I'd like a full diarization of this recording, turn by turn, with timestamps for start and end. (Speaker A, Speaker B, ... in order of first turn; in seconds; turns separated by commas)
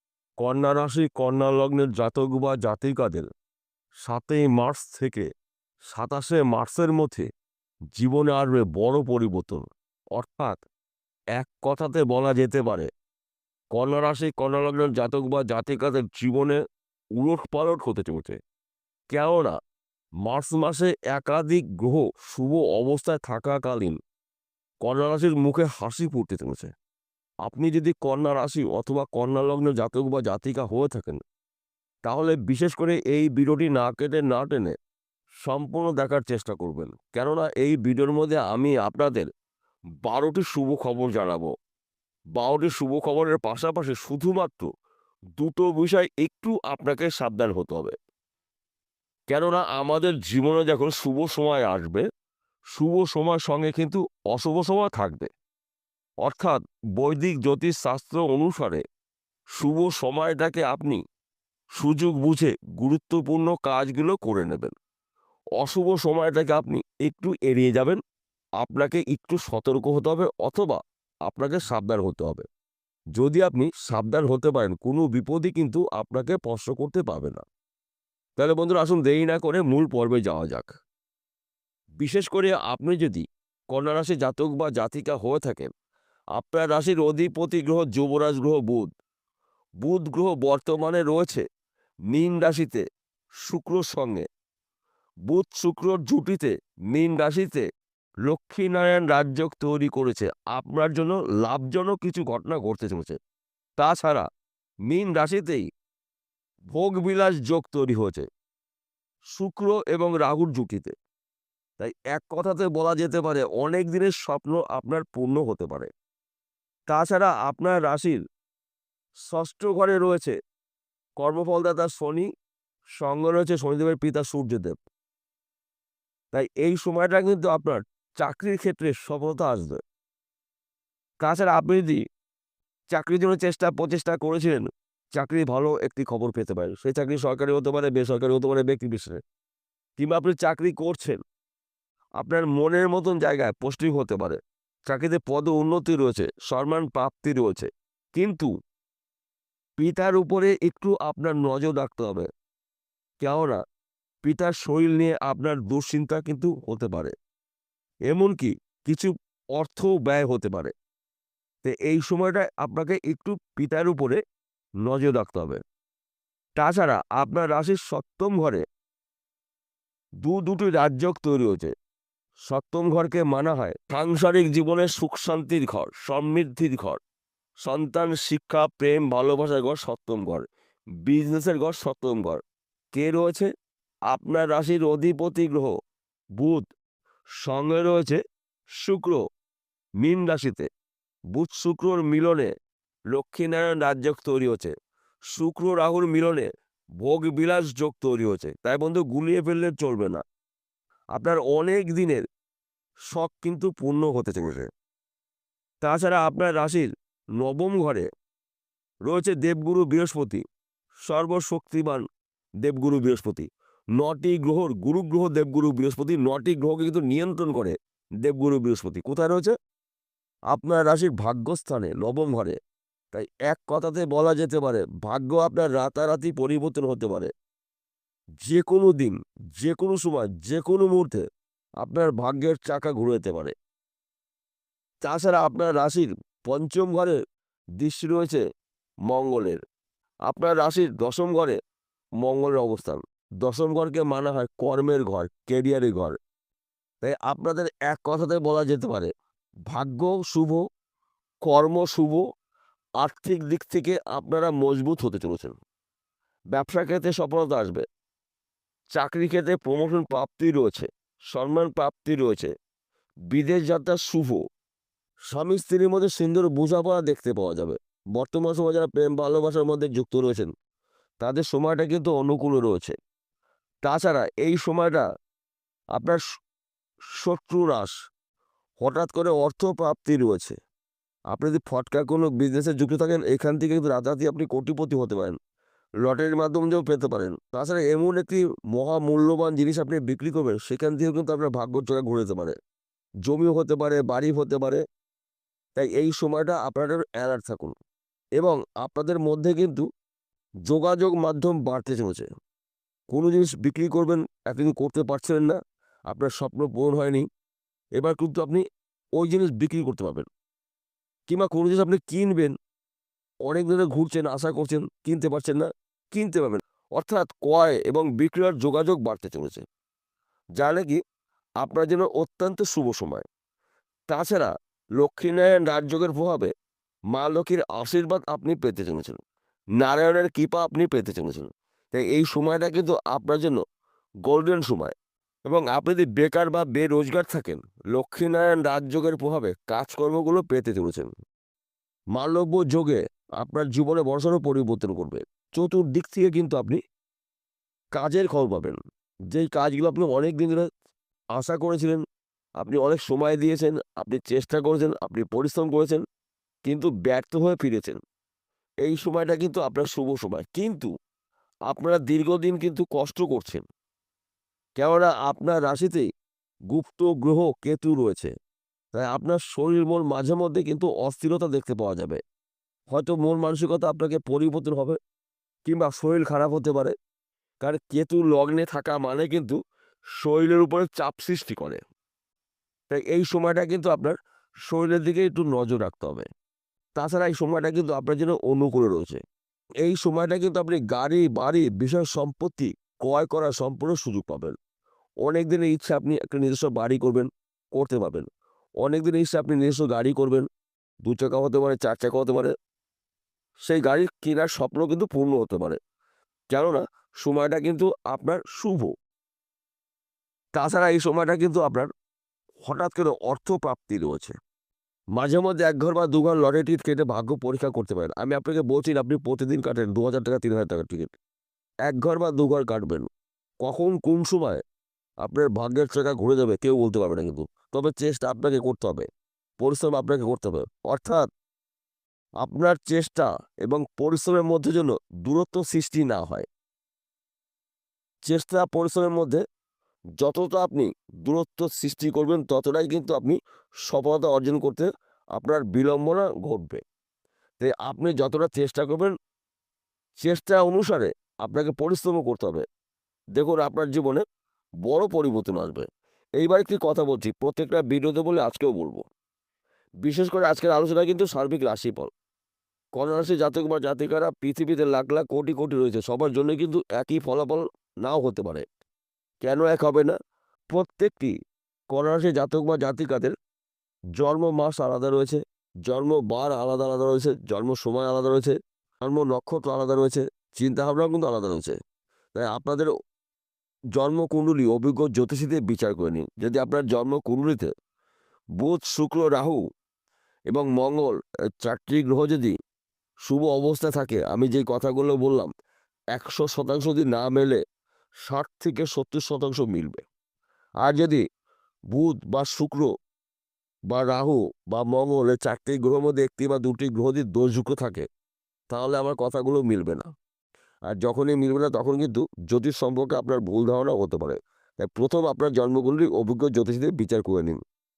Speaker A: 0.4-3.3, Speaker A: 4.0-5.3, Speaker A: 5.9-7.3, Speaker A: 8.0-10.6, Speaker A: 11.4-12.9, Speaker A: 13.7-16.6, Speaker A: 17.2-18.4, Speaker A: 19.1-19.6, Speaker A: 20.2-24.0, Speaker A: 24.8-26.7, Speaker A: 27.4-31.2, Speaker A: 32.0-34.8, Speaker A: 35.4-39.3, Speaker A: 40.0-41.5, Speaker A: 42.4-44.7, Speaker A: 45.4-47.9, Speaker A: 49.3-52.1, Speaker A: 52.8-55.3, Speaker A: 56.2-58.8, Speaker A: 59.6-61.0, Speaker A: 61.8-64.7, Speaker A: 65.6-68.0, Speaker A: 68.6-72.5, Speaker A: 73.2-77.4, Speaker A: 78.4-80.7, Speaker A: 82.0-85.7, Speaker A: 86.4-88.9, Speaker A: 89.8-91.4, Speaker A: 92.1-92.8, Speaker A: 93.5-94.2, Speaker A: 95.3-97.7, Speaker A: 98.3-103.2, Speaker A: 103.8-104.3, Speaker A: 104.9-105.7, Speaker A: 106.7-108.3, Speaker A: 109.3-110.9, Speaker A: 111.8-115.9, Speaker A: 116.9-118.2, Speaker A: 119.3-120.3, Speaker A: 121.2-122.3, Speaker A: 123.0-124.8, Speaker A: 126.3-129.8, Speaker A: 131.2-132.0, Speaker A: 132.9-139.2, Speaker A: 140.0-141.2, Speaker A: 142.2-148.5, Speaker A: 149.8-152.3, Speaker A: 153.2-153.6, Speaker A: 154.2-157.1, Speaker A: 158.1-160.7, Speaker A: 161.6-164.2, Speaker A: 164.8-165.6, Speaker A: 166.6-168.6, Speaker A: 170.2-171.7, Speaker A: 172.5-177.0, Speaker A: 177.6-180.5, Speaker A: 181.0-182.4, Speaker A: 182.9-183.5, Speaker A: 184.1-185.7, Speaker A: 186.4-186.7, Speaker A: 187.4-188.2, Speaker A: 188.8-189.2, Speaker A: 190.0-190.7, Speaker A: 191.3-192.5, Speaker A: 193.1-194.7, Speaker A: 195.3-196.5, Speaker A: 197.0-200.2, Speaker A: 201.2-202.2, Speaker A: 203.1-204.7, Speaker A: 205.8-208.1, Speaker A: 209.1-210.4, Speaker A: 211.1-212.0, Speaker A: 212.6-213.5, Speaker A: 214.0-219.5, Speaker A: 220.5-222.6, Speaker A: 223.1-227.3, Speaker A: 228.4-231.2, Speaker A: 231.8-233.5, Speaker A: 235.0-237.2, Speaker A: 237.8-238.4, Speaker A: 239.1-239.6, Speaker A: 240.3-241.6, Speaker A: 242.2-246.2, Speaker A: 247.0-249.1, Speaker A: 249.7-250.6, Speaker A: 251.5-252.2, Speaker A: 253.0-255.6, Speaker A: 256.5-257.8, Speaker A: 258.9-262.5, Speaker A: 263.3-264.4, Speaker A: 265.3-270.5, Speaker A: 271.2-272.9, Speaker A: 273.8-275.1, Speaker A: 275.9-276.2, Speaker A: 277.2-277.9, Speaker A: 278.8-280.6, Speaker A: 281.3-285.4, Speaker A: 286.0-292.6, Speaker A: 293.2-294.8, Speaker A: 295.8-297.8, Speaker A: 298.4-299.9, Speaker A: 300.7-302.3, Speaker A: 303.1-305.6, Speaker A: 306.1-307.3, Speaker A: 308.0-308.6, Speaker A: 309.2-310.3, Speaker A: 311.3-312.5, Speaker A: 313.5-319.6, Speaker A: 320.6-321.0, Speaker A: 321.6-323.2, Speaker A: 324.1-326.5, Speaker A: 327.1-329.2, Speaker A: 329.8-333.6, Speaker A: 334.2-334.9, Speaker A: 335.5-341.1, Speaker A: 342.1-346.8, Speaker A: 347.9-348.8, Speaker A: 349.3-350.7, Speaker A: 351.4-352.0, Speaker A: 352.6-356.0, Speaker A: 356.6-358.0, Speaker A: 358.9-360.9, Speaker A: 361.7-363.6, Speaker A: 364.8-366.1, Speaker A: 366.7-368.3, Speaker A: 368.9-372.2, Speaker A: 372.9-375.0, Speaker A: 375.7-376.9, Speaker A: 377.6-379.6, Speaker A: 380.2-381.8, Speaker A: 382.9-384.1, Speaker A: 384.7-386.3, Speaker A: 387.0-389.2, Speaker A: 389.8-394.6, Speaker A: 395.2-398.3, Speaker A: 398.8-400.5, Speaker A: 401.1-402.5, Speaker A: 403.7-405.8, Speaker A: 406.5-408.9, Speaker A: 410.6-411.9, Speaker A: 412.6-414.3, Speaker A: 415.1-421.1, Speaker A: 421.9-423.1, Speaker A: 423.6-424.6, Speaker A: 425.2-429.1, Speaker A: 429.6-431.3, Speaker A: 432.4-436.5, Speaker A: 438.3-439.4, Speaker A: 440.2-443.4, Speaker A: 443.9-446.8, Speaker A: 447.6-449.1, Speaker A: 450.2-452.6, Speaker A: 453.4-454.2, Speaker A: 454.9-455.9, Speaker A: 456.4-459.0, Speaker A: 460.0-462.1, Speaker A: 463.0-468.6, Speaker A: 469.4-470.1, Speaker A: 470.7-471.3, Speaker A: 471.9-473.4, Speaker A: 474.2-481.8, Speaker A: 482.4-482.9, Speaker A: 483.9-487.7, Speaker A: 488.6-489.6, Speaker A: 490.5-492.6, Speaker A: 493.3-495.5, Speaker A: 496.1-497.6, Speaker A: 498.3-500.0, Speaker A: 500.8-501.2, Speaker A: 501.9-502.9, Speaker A: 503.9-508.1, Speaker A: 508.7-510.1, Speaker A: 510.9-517.6